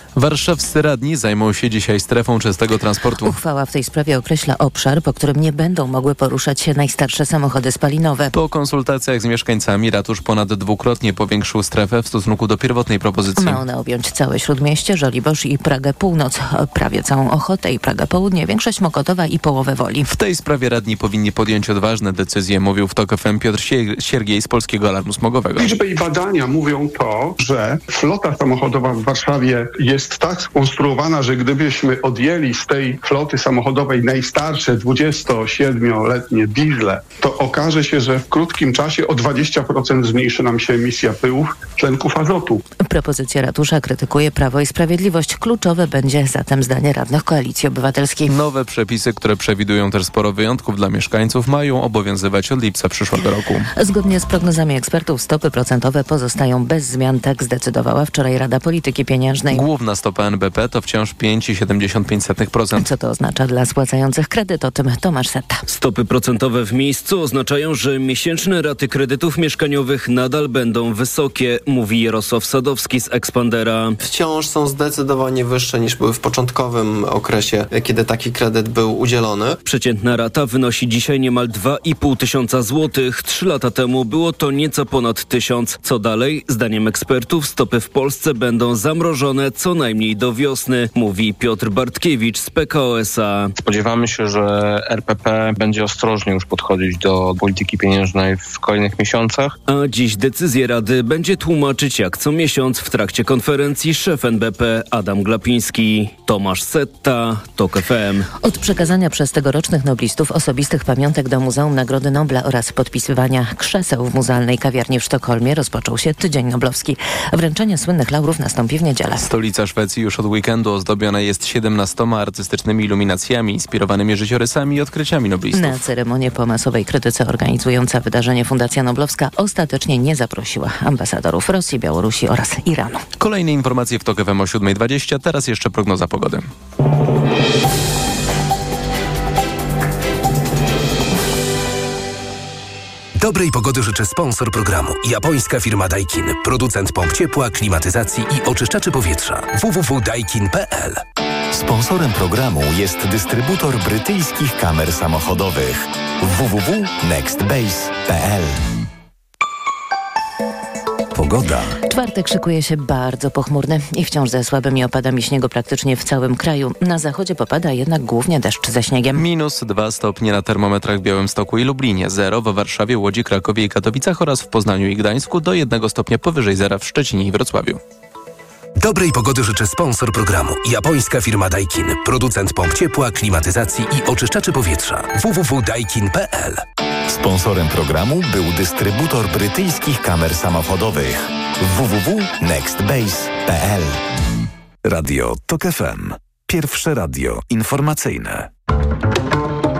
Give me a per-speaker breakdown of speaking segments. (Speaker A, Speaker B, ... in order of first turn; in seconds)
Speaker A: 0.1-3.4, 8.3-13.6, 20.1-25.8, 48.3-53.7, 59.5-62.9, 119.2-125.8, 133.2-136.5, 169.2-177.8
Speaker B: 3.2-8.3, 13.4-20.1, 42.9-48.3, 53.8-59.7, 62.7-65.6, 108.4-119.3, 125.5-133.0, 161.9-169.2
Speaker C: 25.6-42.6
Speaker D: 65.7-74.0, 79.7-93.5, 99.7-108.3
Speaker E: 74.2-79.5
Speaker F: 93.6-99.6
Speaker G: 143.2-151.0, 178.8-186.6
Speaker H: 151.6-152.7, 154.8-155.7, 156.4-158.4, 161.1-161.8, 187.1-194.0, 194.8-198.5